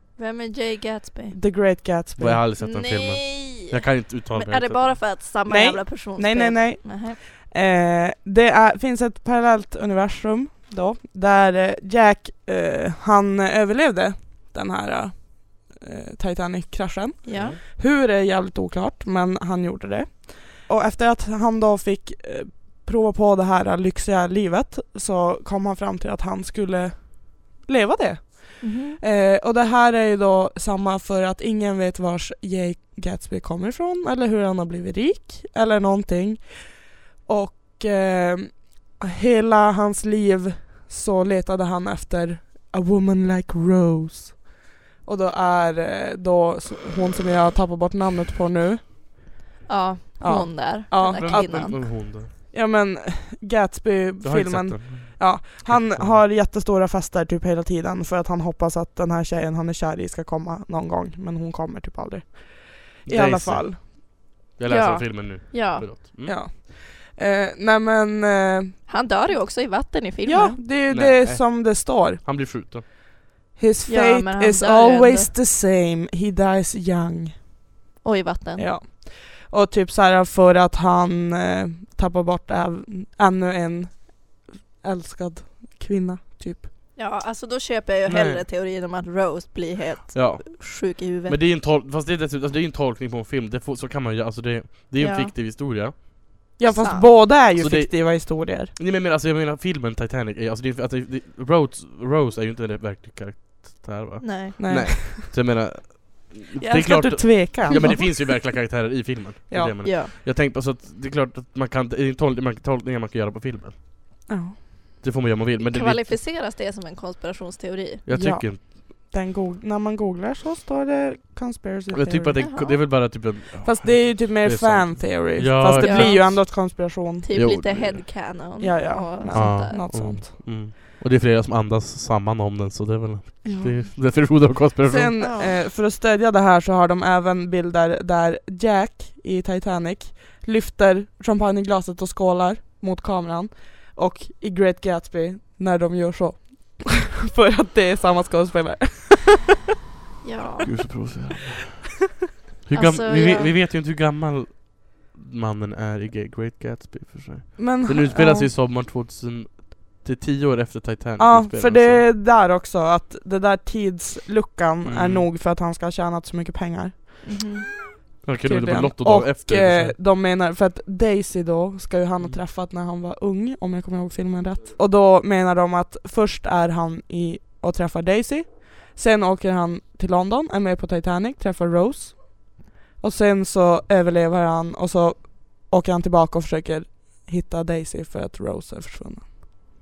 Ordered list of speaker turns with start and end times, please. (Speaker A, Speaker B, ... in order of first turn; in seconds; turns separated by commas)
Speaker A: 0.2-1.4, Speaker B: 1.3-2.5, Speaker C: 2.2-5.2, Speaker A: 2.6-7.2, Speaker B: 5.5-44.5, Speaker A: 17.2-17.6, Speaker A: 28.6-29.0, Speaker B: 45.0-49.2, Speaker A: 49.7-51.8, Speaker B: 50.2-63.8, Speaker C: 51.0-52.3, Speaker C: 54.2-56.2, Speaker C: 63.1-66.4, Speaker A: 64.7-65.9, Speaker B: 66.2-68.9, Speaker A: 68.9-70.6, Speaker B: 70.2-72.2, Speaker C: 70.9-72.8, Speaker B: 73.6-77.4, Speaker A: 73.9-75.3, Speaker A: 78.0-78.7, Speaker B: 78.6-86.7, Speaker A: 87.0-91.4, Speaker C: 88.1-88.4, Speaker C: 90.1-96.1, Speaker A: 95.0-95.3, Speaker B: 96.6-98.7, Speaker A: 96.8-97.1, Speaker C: 97.5-113.8, Speaker A: 104.2-104.5, Speaker B: 104.6-105.3, Speaker B: 106.6-108.4, Speaker A: 107.7-108.0, Speaker A: 109.8-110.1, Speaker B: 114.3-114.6, Speaker C: 115.0-116.2, Speaker A: 115.6-118.0, Speaker C: 118.1-118.7, Speaker B: 118.1-122.4, Speaker C: 121.9-126.5, Speaker A: 122.4-122.8, Speaker B: 123.6-127.3, Speaker A: 125.8-126.5, Speaker A: 127.2-129.8, Speaker C: 127.3-128.1, Speaker B: 128.6-130.3, Speaker C: 129.3-135.1, Speaker B: 133.5-133.9, Speaker B: 134.8-149.5, Speaker A: 135.2-135.6, Speaker A: 150.2-150.7, Speaker C: 150.7-151.9, Speaker C: 152.7-162.1, Speaker A: 152.7-153.5, Speaker B: 157.6-158.5, Speaker B: 161.2-167.3, Speaker C: 164.8-165.3, Speaker A: 167.2-167.7, Speaker C: 168.2-170.0, Speaker B: 168.4-189.4